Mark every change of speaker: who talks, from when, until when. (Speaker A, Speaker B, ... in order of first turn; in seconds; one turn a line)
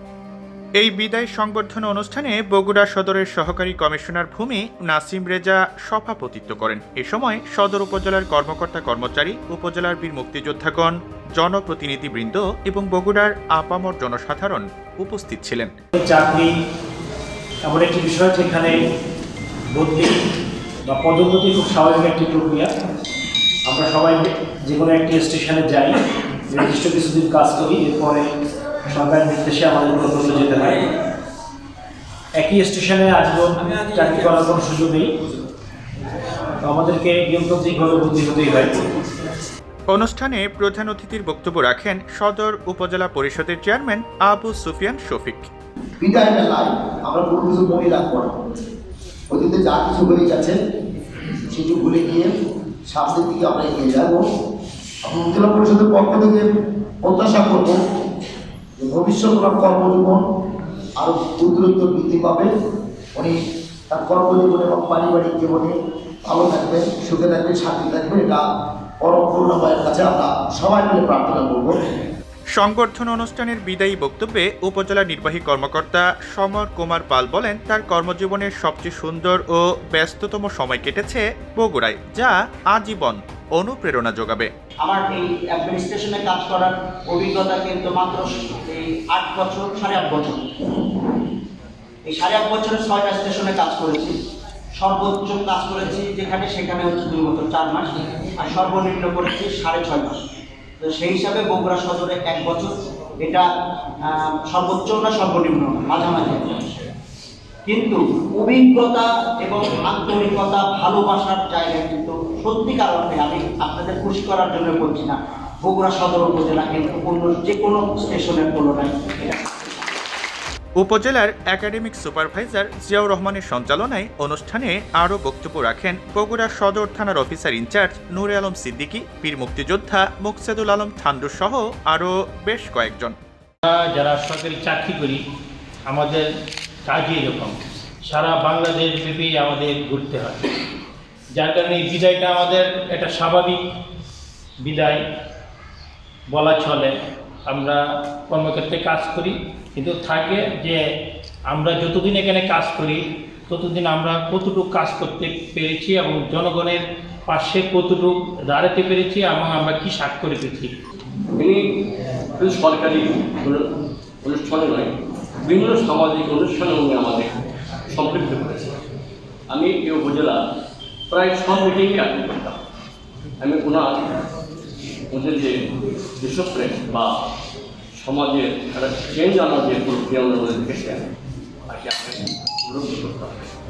Speaker A: 0.8-15.7
Speaker B: 16.0-16.5
Speaker B: 17.6-18.8
Speaker B: 19.7-20.2
Speaker B: 20.9-22.7
Speaker B: 23.7-28.3
Speaker B: 28.9-30.8
Speaker B: 32.4-35.1
Speaker B: 36.6-38.8
Speaker A: 39.9-45.5
Speaker C: 46.0-48.3
Speaker C: 49.3-50.5
Speaker C: 51.5-52.3
Speaker C: 52.9-54.2
Speaker C: 55.0-56.4
Speaker C: 57.0-57.8
Speaker C: 58.8-60.2
Speaker C: 61.0-62.5
Speaker C: 63.9-65.7
Speaker C: 66.3-68.4
Speaker C: 69.0-71.7
Speaker A: 72.5-84.5
Speaker D: 84.8-90.8
Speaker D: 92.0-94.2
Speaker D: 94.8-100.2
Speaker D: 100.8-103.5
Speaker D: 104.0-106.8
Speaker D: 107.7-119.7
Speaker A: 120.8-133.1
Speaker E: 133.6-135.2
Speaker E: 135.9-136.3
Speaker E: 136.8-140.4
Speaker E: 141.3-143.6
Speaker E: 144.6-145.0
Speaker E: 146.3-146.9
Speaker E: 147.4-150.8
Speaker E: 151.5-160.7
Speaker F: 161.4-161.6
Speaker F: 162.4-163.7
Speaker F: 164.2-164.9
Speaker F: 165.4-167.4
Speaker F: 167.9-168.7
Speaker F: 169.5-170.4
Speaker F: 171.1-172.6
Speaker F: 173.4-174.1
Speaker F: 175.1-175.5
Speaker F: 176.2-177.2
Speaker F: 178.0-181.0
Speaker F: 181.7-183.5